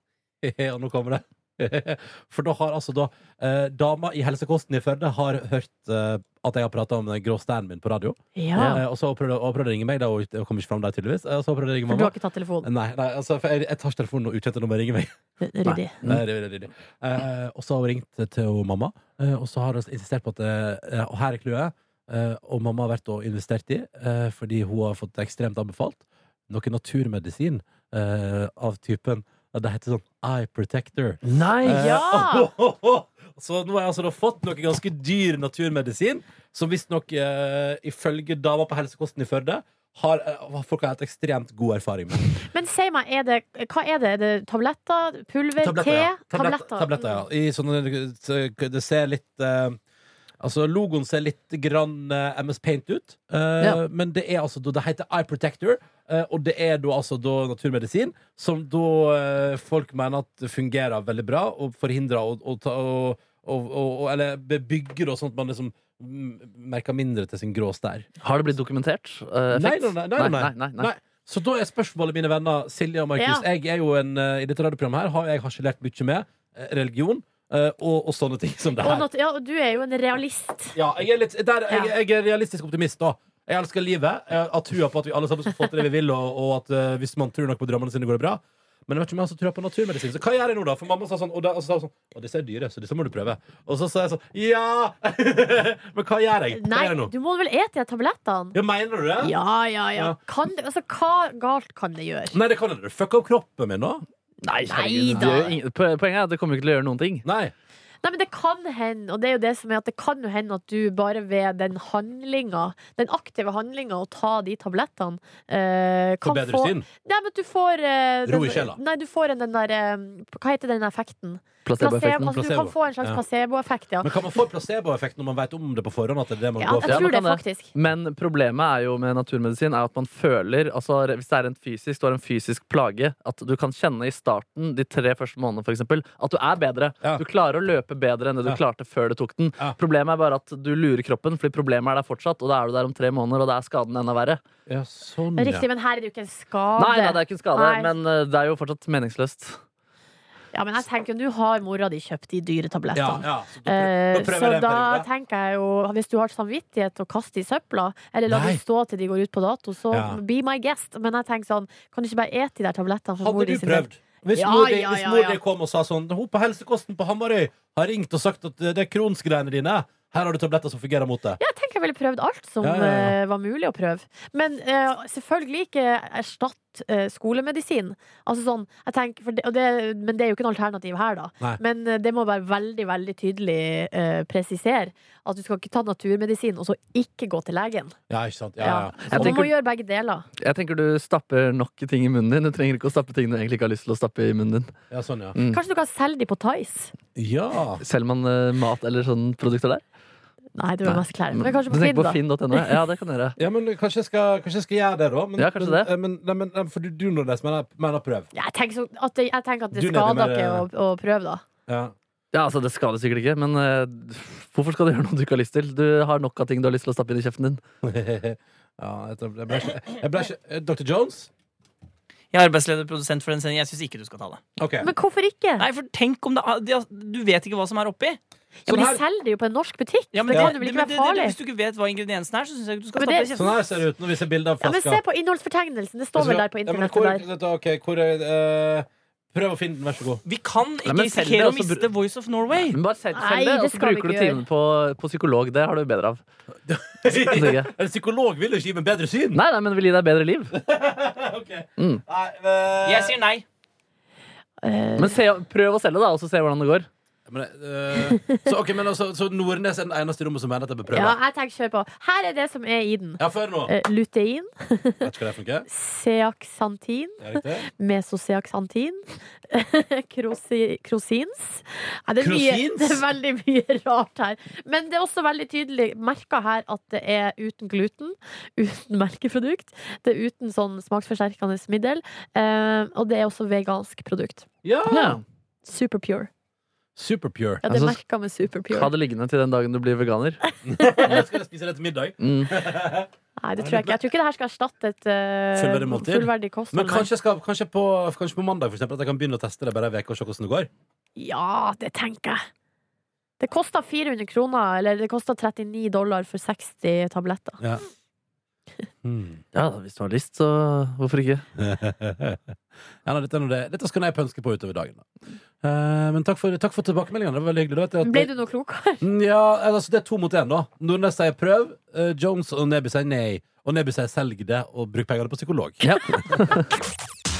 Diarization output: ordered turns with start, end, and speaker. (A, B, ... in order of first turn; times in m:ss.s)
0:00.4-0:15.1 A
0:08.4-0:08.8 B
0:11.9-0:12.7 B
0:15.4-0:16.0 B
0:15.6-0:16.2 C
0:16.0-0:42.3 A
0:31.2-0:31.8 C
0:31.6-0:32.5 B
0:42.5-0:47.2 B
0:45.6-0:49.8 A
0:50.4-1:08.1 A
1:08.2-1:10.9 C
1:09.5-1:19.1 A
1:13.2-1:13.4 B
1:18.8-1:20.8 B
1:20.8-1:37.1 A
1:36.5-1:38.6 B
1:38.5-1:39.3 A
1:39.2-1:42.4 B
1:42.3-1:44.0 A
1:44.4-1:47.2 C
1:44.7-1:45.5 B
1:45.2-1:45.5 A
1:47.2-1:47.5 A
1:48.0-2:04.1 B
1:56.2-1:56.8 A
1:58.2-1:58.8 A
2:01.6-2:02.4 C
2:02.3-2:03.2 A
2:04.0-2:07.0 A
2:06.6-2:07.7 B
2:06.8-2:24.4 C
2:24.7-2:25.6 A
2:25.4-2:27.9 B
2:26.8-2:29.6 C
2:30.5-2:45.4 B
2:32.9-2:35.0 A
2:38.3-2:38.6 A
2:39.9-2:40.2 A
2:43.2-2:51.4 A
2:51.4-3:08.0 B
2:52.6-2:53.2 A
3:08.1-3:09.4 A
3:08.6-3:10.2 B
3:09.0-3:09.5 C
3:10.4-3:14.7 C
3:14.9-3:15.4 A
3:15.3-3:15.6 C
3:15.5-3:16.9 B
3:17.2-3:17.8 A
3:17.8-3:19.8 C
3:20.6-3:22.6 B
3:20.8-3:23.4 C
3:23.4-3:28.3 A
3:25.4-3:25.9 C
3:28.3-3:31.4 B
3:29.7-3:30.6 A
3:31.7-3:31.9 A
3:32.3-3:37.6 C
3:37.8-3:41.3 A
3:42.3-3:44.4 D
3:44.6-3:44.9 A
3:44.8-3:45.6 B
3:45.6-3:48.2 D
3:48.6-3:51.4 B
3:48.6-3:49.0 A
3:50.1-3:53.6 D
3:53.0-3:53.3 B
3:53.3-3:55.0 A
3:54.6-3:57.2 B
3:56.2-4:00.2 A
4:00.2-4:02.8 D
4:00.8-4:01.8 C
4:02.7-4:06.2 C
4:03.1-4:04.4 B
4:06.6-4:09.4 A
4:07.1-4:07.7 C
4:09.3-4:10.5 C
4:10.5-4:13.2 A
4:11.8-4:12.0 C
4:12.8-4:13.4 D
4:14.6-4:15.2 B
4:15.0-4:16.9 C
4:17.3-4:21.2 A
4:18.0-4:18.5 B
4:20.9-4:25.1 B
4:23.2-4:23.7 A
4:25.0-4:25.7 A
4:25.7-4:44.5 B
4:27.2-4:27.7 A
4:32.2-4:33.0 A
4:44.6-4:45.2 A
4:44.9-4:45.2 C
4:45.6-4:46.3 B
4:47.0-4:47.6 A
4:47.6-4:48.9 B
4:47.7-4:48.0 C
4:48.7-4:50.4 C
4:50.6-4:54.0 A
4:50.8-4:51.2 B
4:52.2-4:52.6 C
4:53.4-4:57.1 B
4:55.5-5:00.7 A
5:01.2-5:02.5 B
5:03.4-5:07.6 B
5:09.0-5:09.4 A
5:09.5-5:11.4 C
5:11.6-5:12.4 A
5:13.0-5:15.1 A
5:15.6-5:18.3 A
5:18.0-5:19.0 B
5:19.0-5:26.5 A
5:25.8-5:26.7 C